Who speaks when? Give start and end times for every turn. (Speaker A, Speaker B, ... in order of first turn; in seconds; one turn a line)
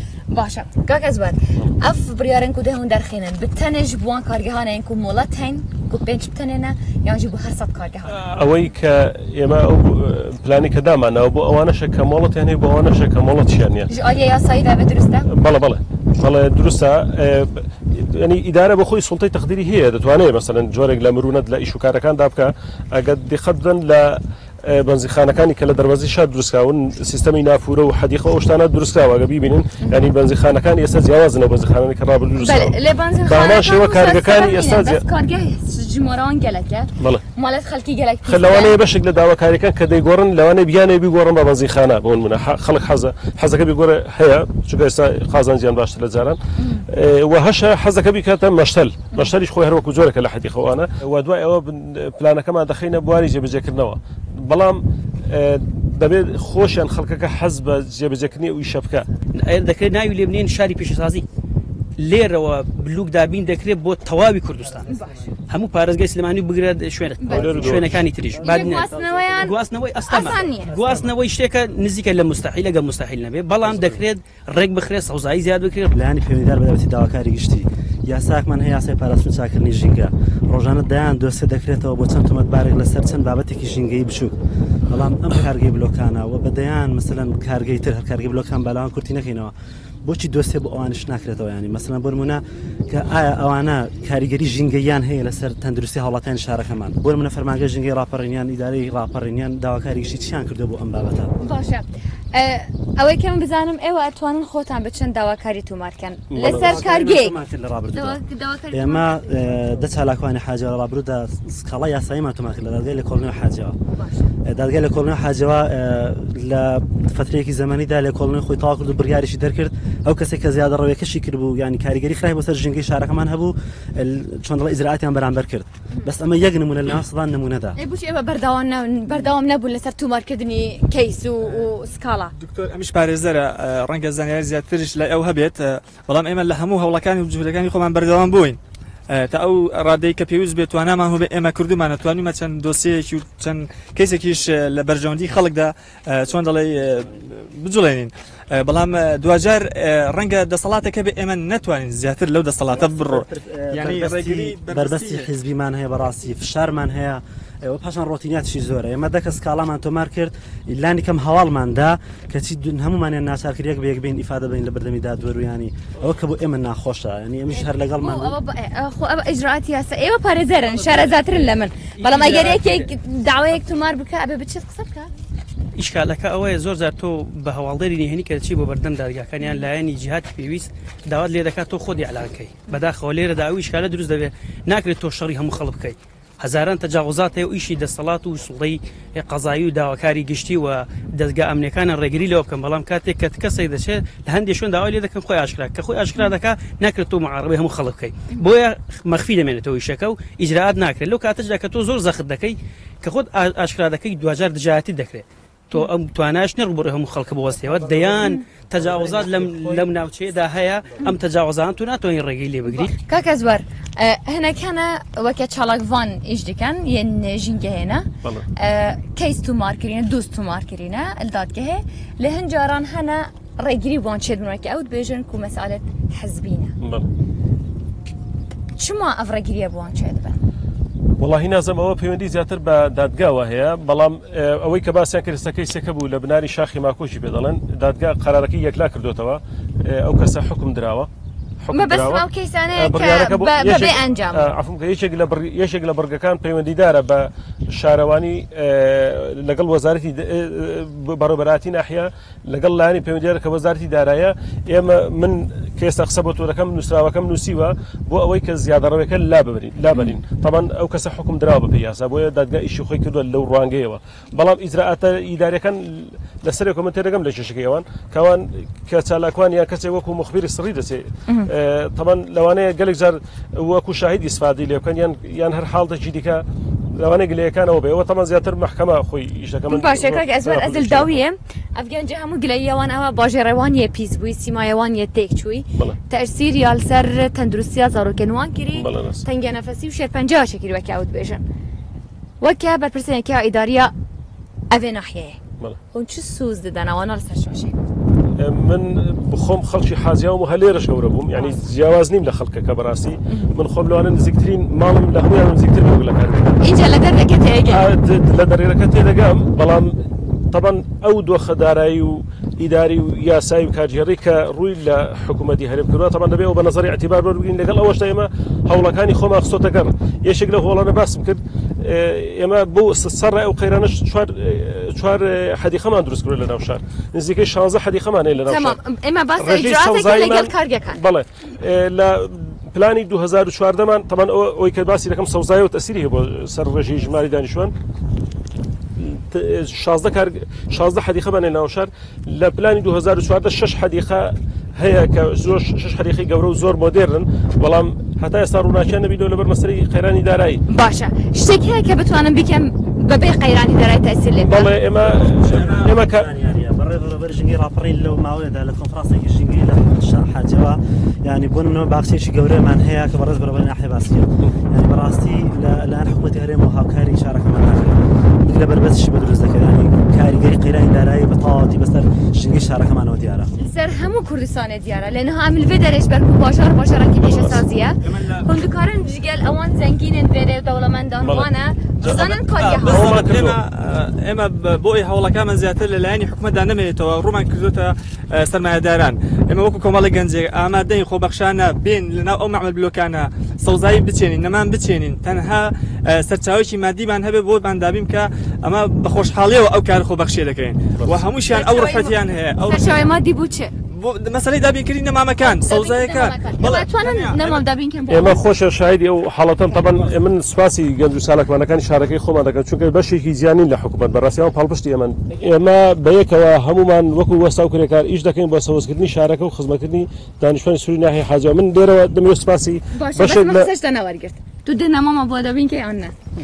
Speaker A: 0.3-8.2
Speaker B: 8.1-13.9
Speaker A: 13.9-15.3
Speaker B: 15.3-35.0
Speaker A: 32.4-38.8
Speaker B: 38.3-46.4
Speaker A: 46.6-46.8
Speaker B: 46.9-59.0
Speaker C: 59.3-61.2
Speaker C: 62.0-75.9
Speaker A: 67.2-67.5
Speaker B: 67.2-68.1
Speaker A: 68.4-70.8
Speaker D: 75.9-84.3
Speaker D: 84.9-89.5
Speaker D: 90.0-101.3
Speaker A: 101.4-107.4
Speaker B: 106.3-106.8
Speaker D: 106.4-113.8
Speaker A: 107.9-109.1
Speaker A: 113.9-114.3
Speaker D: 114.5-127.8
Speaker A: 127.8-132.3
Speaker E: 132.4-138.6
Speaker E: 139.1-155.3
Speaker D: 152.7-168.4
Speaker A: 167.5-175.1
Speaker C: 170.8-171.3
Speaker C: 171.9-172.9
Speaker C: 175.8-212.9
Speaker A: 208.2-208.4
Speaker A: 212.8-226.7
Speaker B: 226.8-227.1
Speaker A: 228.8-230.4
Speaker B: 231.2-241.1
Speaker B: 241.6-276.4
Speaker A: 241.7-244.5
Speaker B: 277.0-281.2
Speaker A: 279.7-291.4
Speaker B: 288.7-289.2
Speaker A: 292.4-293.9
Speaker A: 294.7-295.4
Speaker A: 295.9-297.7
Speaker B: 298.4-306.6
Speaker A: 306.6-307.8
Speaker B: 307.7-310.0
Speaker B: 310.5-328.8
Speaker A: 328.4-331.0
Speaker B: 329.4-337.7
Speaker B: 339.0-350.6
Speaker A: 350.7-354.7
Speaker B: 354.4-356.3
Speaker D: 355.1-373.5
Speaker A: 373.6-383.2
Speaker B: 377.2-377.6
Speaker E: 378.0-378.5
Speaker B: 381.2-381.5
Speaker E: 382.0-403.0
Speaker B: 382.8-383.6
Speaker A: 401.5-403.7
Speaker E: 403.9-407.6
Speaker A: 405.4-408.5
Speaker B: 408.1-423.7
Speaker A: 422.9-426.1